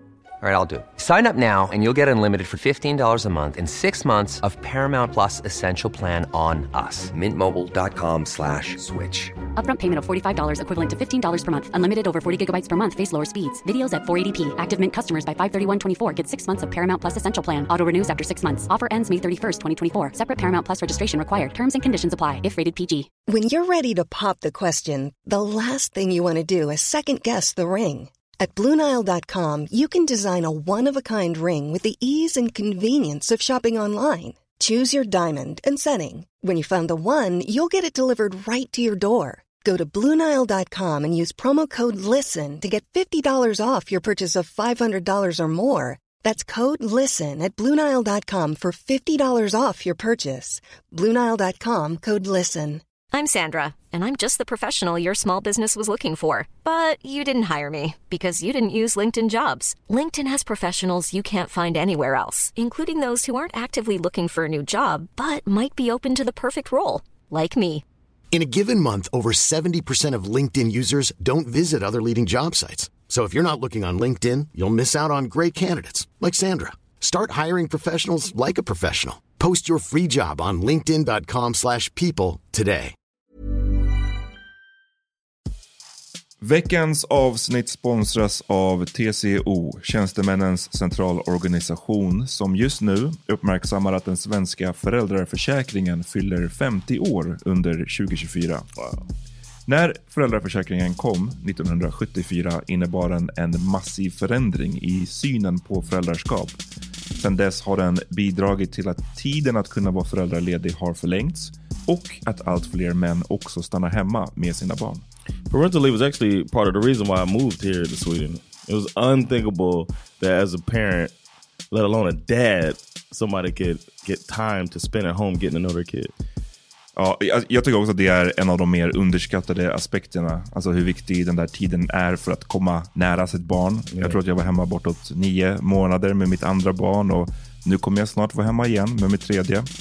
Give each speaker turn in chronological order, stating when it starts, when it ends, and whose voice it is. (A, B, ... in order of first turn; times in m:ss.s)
0:00.4-0:09.3 A
0:09.6-0:23.1 B
0:23.3-0:52.8 C
0:53.1-1:07.8 D
1:08.3-1:23.0 E
1:26.4-1:38.7 F
1:38.8-1:39.1 G
1:39.7-1:46.6 F
1:47.2-1:55.0 F
1:55.5-2:01.1 G
2:01.7-2:06.1 G
2:07.0-2:19.7 F